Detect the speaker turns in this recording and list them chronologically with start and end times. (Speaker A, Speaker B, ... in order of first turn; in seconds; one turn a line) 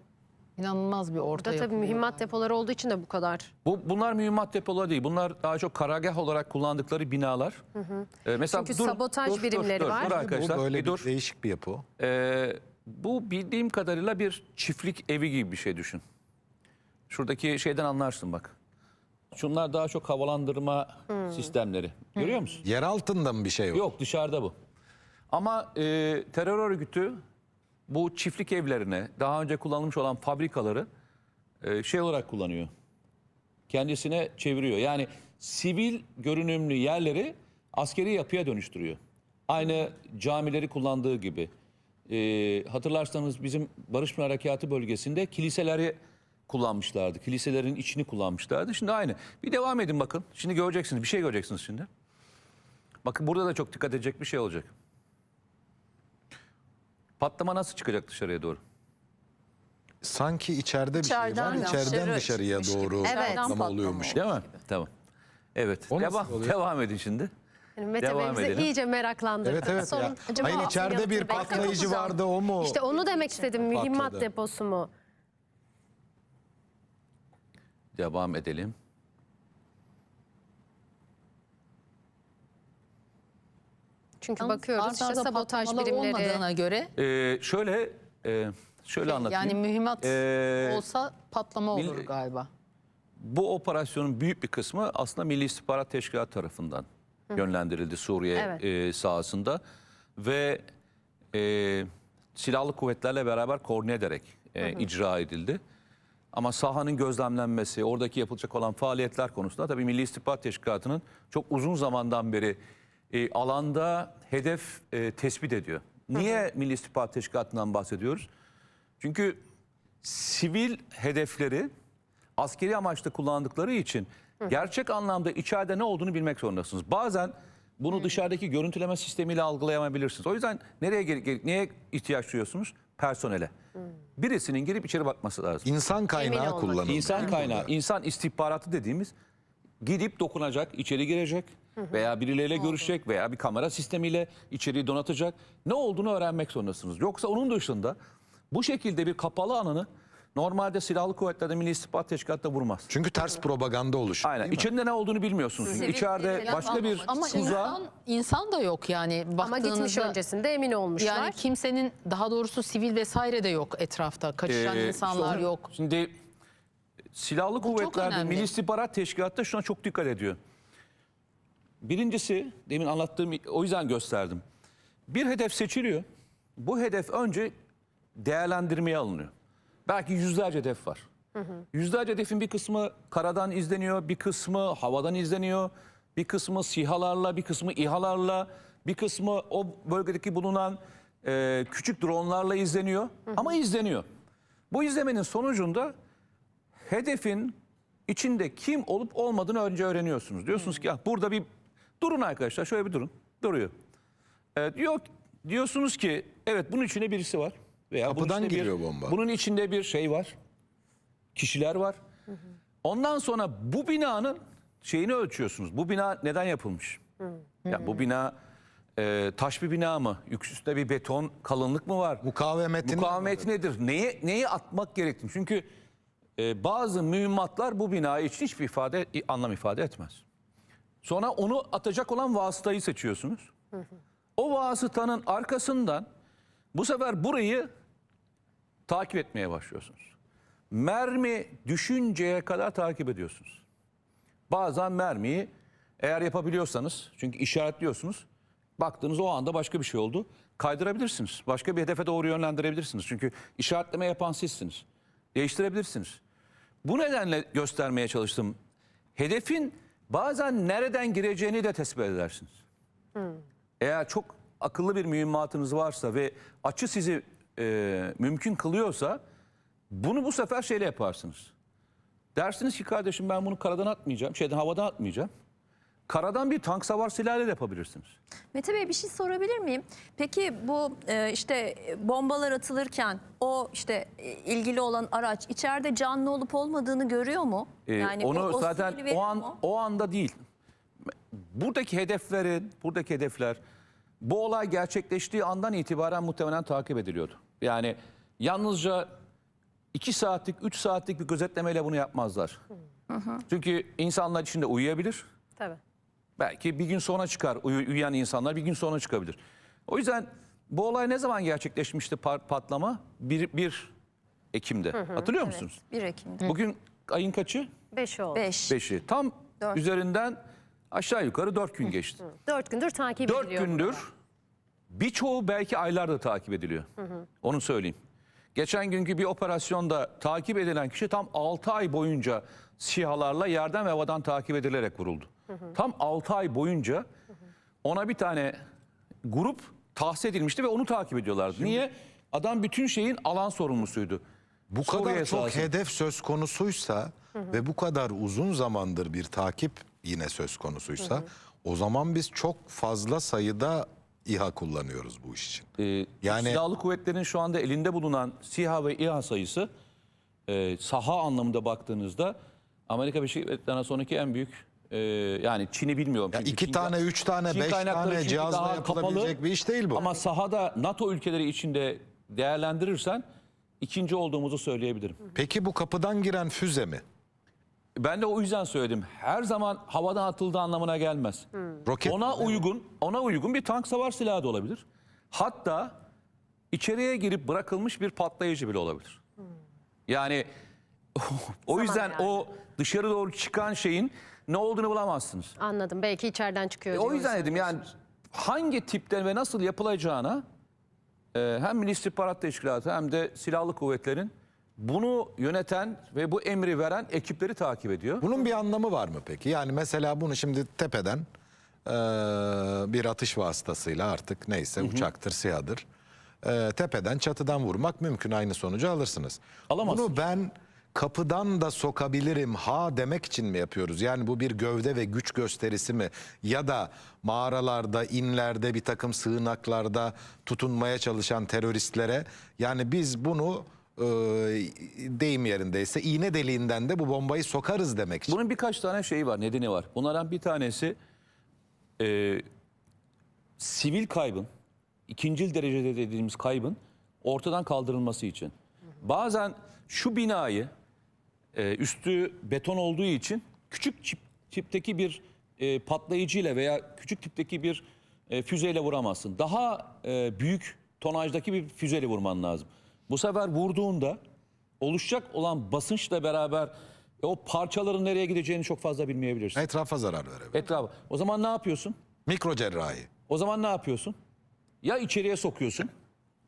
Speaker A: 0.6-2.2
Speaker B: 1.4-3.5
Speaker C: 3.6-7.6
Speaker B: 7.8-10.2
Speaker C: 8.2-11.1
Speaker D: 9.9-11.8
Speaker C: 12.0-16.0
Speaker C: 17.1-18.5
Speaker C: 19.3-22.6
Speaker D: 22.6-23.8
Speaker C: 23.7-24.6
Speaker C: 25.3-27.2
Speaker C: 27.9-30.9
Speaker C: 31.6-32.7
Speaker C: 33.7-41.5
Speaker C: 42.1-46.0
Speaker C: 46.5-51.9
Speaker C: 53.0-54.7
Speaker C: 57.2-58.6
Speaker D: 60.0-64.2
Speaker E: 61.0-64.6
Speaker B: 63.0-63.5
Speaker C: 64.1-64.9
Speaker C: 65.5-67.3
Speaker D: 65.9-66.5
Speaker B: 67.8-74.9
Speaker C: 68.0-68.7
Speaker D: 69.4-72.8
Speaker E: 70.2-72.1
Speaker D: 73.7-74.2
Speaker C: 78.0-78.7
Speaker B: 84.2-86.4
Speaker A: 84.4-86.9
Speaker C: 87.0-90.8
Speaker A: 89.0-92.5
Speaker C: 91.7-92.1
Speaker C: 93.2-99.6
Speaker C: 100.2-100.6
Speaker C: 101.3-105.6
Speaker C: 106.3-112.6
Speaker C: 113.1-118.3
Speaker C: 119.0-119.4
Speaker C: 120.0-121.7
Speaker C: 122.4-133.5
Speaker C: 134.2-135.7
Speaker D: 135.6-137.7
Speaker B: 136.1-137.3
Speaker C: 136.9-139.1
Speaker C: 139.8-148.0
Speaker C: 148.5-152.9
Speaker D: 152.9-154.7
Speaker C: 154.2-157.8
Speaker E: 155.6-157.8
Speaker A: 156.4-160.2
Speaker B: 159.4-161.4
Speaker A: 161.0-165.7
Speaker C: 164.4-166.1
Speaker C: 167.1-170.4
Speaker A: 167.6-168.5
Speaker C: 171.8-174.4
Speaker C: 175.1-176.1
Speaker C: 176.6-177.5
Speaker C: 178.2-179.3
Speaker C: 179.9-181.0
Speaker C: 181.7-194.1
Speaker C: 194.7-195.9
Speaker C: 196.8-197.6
Speaker C: 198.1-201.4
Speaker C: 202.0-203.7
Speaker C: 204.6-210.3
Speaker D: 208.1-209.2
Speaker C: 211.3-212.0
Speaker C: 212.8-217.0
Speaker C: 217.7-218.3
Speaker C: 219.0-222.2
Speaker D: 222.2-223.4
Speaker C: 222.8-225.7
Speaker C: 226.4-230.2
Speaker C: 231.0-233.5
Speaker C: 234.4-236.1
Speaker C: 236.7-237.7
Speaker C: 238.9-240.1
Speaker C: 240.7-243.6
Speaker C: 244.5-245.5
Speaker C: 246.0-248.2
Speaker C: 248.8-254.8
Speaker C: 255.3-256.2
Speaker C: 256.8-258.6
Speaker C: 259.2-262.6
Speaker C: 263.8-269.2
Speaker C: 269.9-271.5
Speaker C: 272.4-275.3
Speaker C: 276.1-278.1
Speaker E: 278.5-289.6
Speaker C: 287.9-290.4
Speaker C: 291.3-293.6
Speaker C: 294.2-299.1
Speaker C: 299.9-302.6
Speaker C: 303.5-305.2
Speaker C: 306.4-313.9
Speaker C: 314.5-315.8
Speaker E: 315.3-316.5
Speaker C: 316.4-317.7
Speaker B: 317.9-318.5
Speaker E: 318.3-318.8
Speaker C: 318.7-320.4
Speaker C: 320.9-322.3
Speaker B: 322.4-324.0
Speaker C: 323.2-324.1
Speaker C: 324.9-326.9
Speaker C: 327.4-328.0
Speaker C: 328.5-337.0
Speaker C: 337.8-338.6
Speaker C: 339.2-344.2
Speaker D: 344.7-355.7
Speaker C: 344.8-345.7
Speaker C: 355.8-359.7
Speaker D: 356.2-356.6
Speaker C: 360.5-362.4
Speaker C: 362.9-366.9
Speaker D: 366.3-370.1
Speaker C: 367.5-369.4
Speaker C: 369.9-373.2
Speaker C: 373.8-375.2
Speaker D: 375.4-377.0
Speaker C: 378.0-381.5
Speaker D: 381.9-382.5
Speaker C: 382.0-385.9
Speaker C: 386.7-389.2
Speaker C: 390.1-390.5
Speaker C: 391.1-395.5
Speaker B: 391.7-392.4
Speaker B: 395.6-397.9
Speaker C: 396.9-400.4
Speaker C: 401.3-408.2
Speaker D: 408.2-411.2
Speaker D: 411.9-415.8
Speaker C: 414.8-415.1
Speaker D: 416.4-438.4
Speaker C: 419.7-420.1
Speaker C: 438.3-441.0
Speaker C: 442.0-442.4
Speaker C: 443.6-444.5
Speaker C: 445.1-450.7
Speaker C: 451.5-464.2
Speaker C: 464.8-469.6
Speaker D: 469.5-470.6
Speaker C: 470.5-471.9
Speaker D: 472.2-473.1
Speaker C: 473.3-474.1
Speaker C: 474.8-475.9